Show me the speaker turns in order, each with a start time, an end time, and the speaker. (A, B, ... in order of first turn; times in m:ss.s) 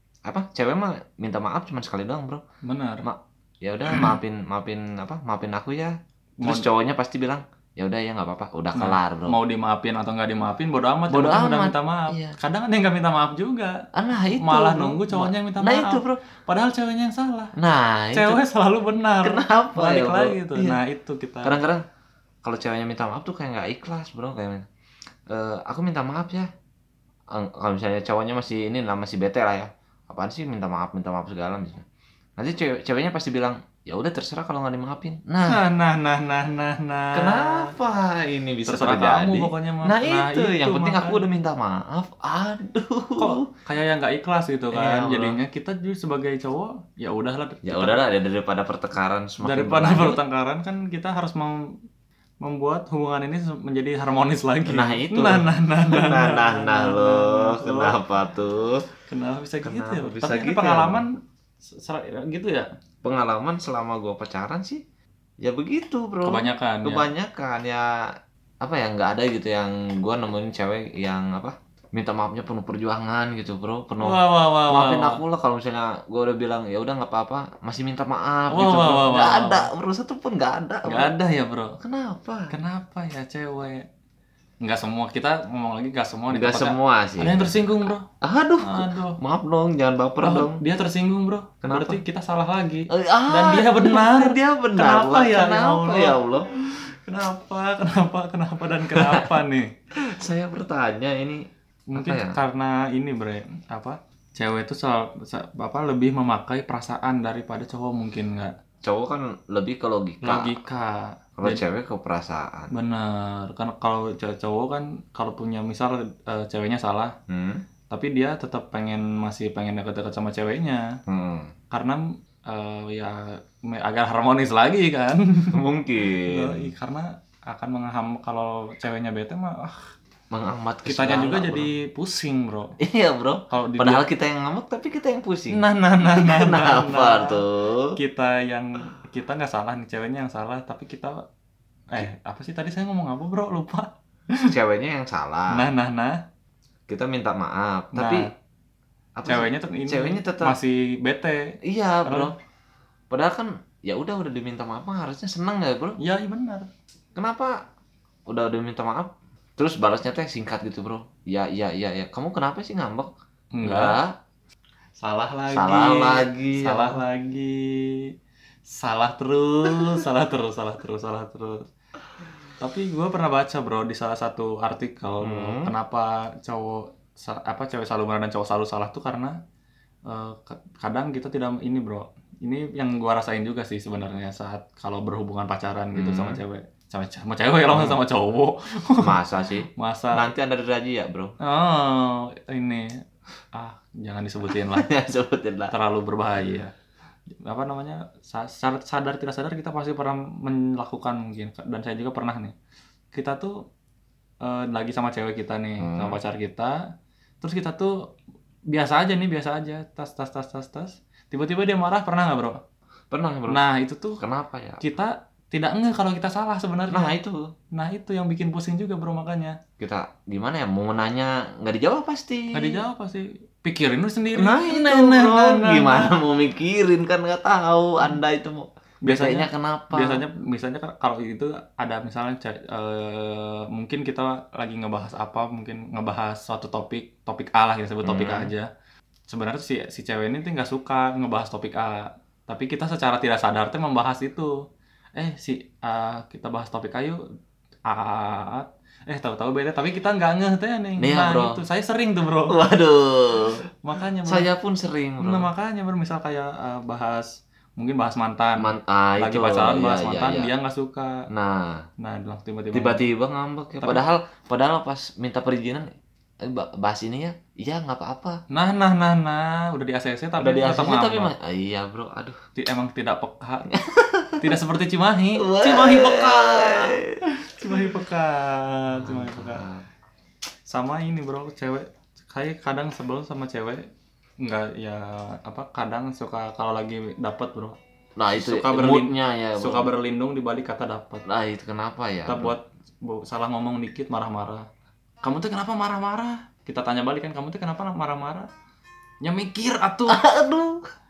0:00.3-0:02.4 A
0:02.6-0:03.1 B
0:03.0-0:09.4 A
0:06.4-0:06.7 B
0:08.8-0:13.8 B
0:11.1-0:12.4 A
0:13.9-0:16.2 A
0:14.4-0:17.5 B
0:17.6-0:18.4 A
0:18.1-0:21.6 B
0:19.2-0:20.8 A
0:21.4-0:21.8 A
0:22.4-0:24.7 A
0:25.3-0:26.5 A
0:27.3-0:31.8 A
0:32.4-0:35.6 A
0:35.5-0:37.7 B
0:37.1-0:43.5 A
0:38.7-0:41.2 B
0:43.2-0:48.0 B
0:44.7-0:45.4 A
0:47.6-0:50.2 A
0:49.4-0:51.7 B
0:52.4-0:58.0 B
0:54.7-0:58.9 A
0:59.1-1:02.7 B
0:59.6-1:01.0 A
1:03.0-1:04.8 A
1:05.4-1:07.9 A
1:06.2-1:07.1 B
1:08.6-1:21.2 A
1:14.0-1:15.2 B
1:18.5-1:19.7 B
1:20.8-1:21.8 B
1:21.8-1:22.5 A
1:22.5-1:23.9 B
1:24.6-1:28.1 B
1:26.3-1:30.6 A
1:28.6-1:29.2 B
1:30.2-1:39.7 B
1:31.6-1:32.0 A
1:32.9-1:36.5 A
1:39.0-1:39.3 A
1:40.0-1:42.4 A
1:41.9-1:48.6 B
1:48.8-1:50.6 A
1:50.2-1:51.6 B
1:51.4-1:52.7 A
1:52.7-1:57.2 B
1:57.3-1:57.6 A
1:57.9-2:01.0 B
2:01.1-2:01.5 A
2:01.7-2:05.6 B
2:05.5-2:06.7 A
2:06.2-2:09.8 B
2:10.3-2:11.7 A
2:10.8-2:12.8 B
2:12.8-2:18.0 A
2:13.5-2:14.0 B
2:15.5-2:17.4 B
2:18.0-2:21.2 B
2:21.9-2:24.5 B
2:24.5-2:25.6 A
2:25.5-2:26.2 B
2:26.9-2:28.3 A
2:27.9-2:28.3 B
2:29.2-2:30.6 A
2:29.3-2:32.3 B
2:31.6-2:32.3 A
2:33.1-2:36.0 A
2:36.0-2:36.7 B
2:37.2-2:37.6 A
2:38.3-2:43.1 A
2:43.5-2:44.0 B
2:43.6-2:44.2 A
2:45.0-2:48.1 B
2:45.5-2:47.0 A
2:48.7-2:51.7 B
2:52.6-2:59.4 B
2:55.2-2:55.7 A
3:00.1-3:09.2 B
3:06.0-3:06.4 A
3:07.7-3:08.0 A
3:09.0-3:11.4 A
3:09.8-3:10.3 B
3:11.4-3:13.0 B
3:13.5-3:14.9 B
3:14.6-3:15.7 A
3:15.7-3:16.7 B
3:17.4-3:22.6 B
3:23.1-3:23.6 B
3:24.4-3:26.8 B
3:25.8-3:26.2 A
3:27.4-3:28.0 B
3:28.7-3:32.6 B
3:33.1-3:33.6 A
3:33.5-3:34.2 B
3:34.2-3:34.9 A
3:34.8-3:37.1 B
3:36.9-3:37.5 A
3:37.7-3:39.6 B
3:39.8-3:42.8 A
3:42.5-3:46.1 B
3:44.3-3:50.2 A
3:49.0-3:58.7 B
3:58.0-3:58.5 A
3:59.3-4:04.6 B
4:05.2-4:07.2 B
4:07.9-4:12.6 B
4:11.0-4:11.6 A
4:12.5-4:13.6 A
4:13.8-4:14.5 B
4:14.3-4:15.5 A
4:15.2-4:21.3 B
4:18.6-4:20.5 A
4:21.3-4:21.8 A
4:22.0-4:23.1 B
4:22.7-4:25.9 A
4:26.4-4:28.4 A
4:28.5-4:31.3 B
4:30.4-4:32.4 A
4:32.6-4:33.8 B
4:33.7-4:34.6 A
4:34.4-4:39.7 B
4:35.4-4:37.2 A
4:39.0-4:39.8 A
4:40.7-4:43.9 B
4:44.4-4:47.8 B
4:48.2-4:49.9 A
4:48.3-4:51.2 B
4:51.3-4:52.6 A
4:52.3-4:54.7 B
4:55.2-4:58.5 B
4:59.2-5:00.3 B
5:00.1-5:00.8 A